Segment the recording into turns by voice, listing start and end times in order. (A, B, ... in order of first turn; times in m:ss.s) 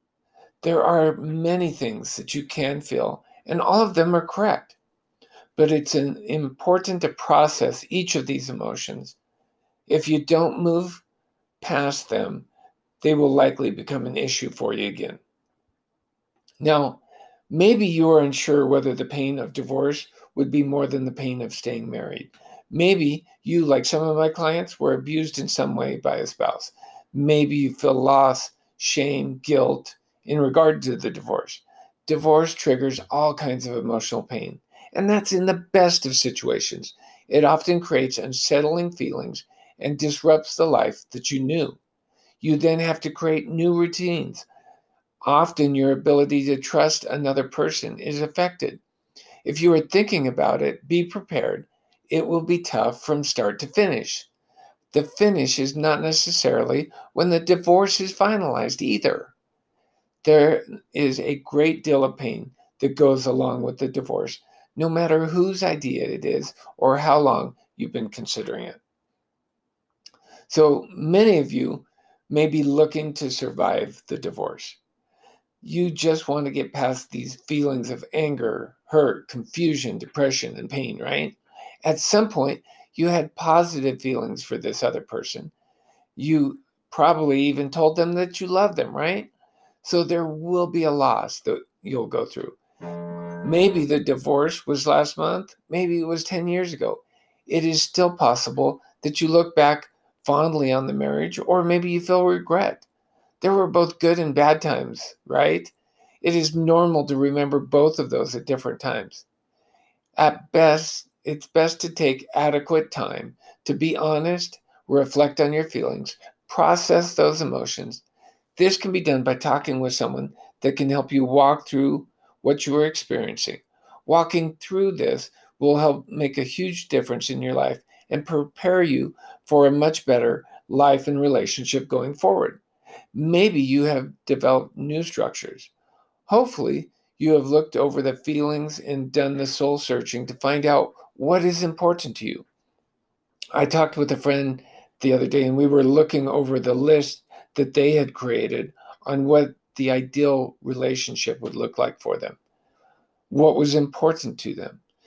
0:00.6-0:04.8 A
0:05.6-0:09.2 A
0:09.9-0:11.0 A
0:11.6-0:12.5 A
0:13.0-0:15.2 A
0:16.6-0:41.8 A
0:42.4-0:44.5 A
0:45.2-0:48.8 A
0:49.4-0:54.3 A
0:54.9-0:59.4 A
1:00.2-1:08.8 A
1:10.5-1:14.8 A
1:15.6-1:25.5 A
1:26.2-1:29.3 A
1:29.8-1:32.6 A
1:33.4-1:42.9 A
1:43.4-1:49.3 A
1:50.2-1:58.0 A
1:58.6-2:12.6 A
2:13.1-2:15.7 A
2:16.3-2:22.5 A
2:23.5-2:32.4 A
2:33.3-2:34.8 A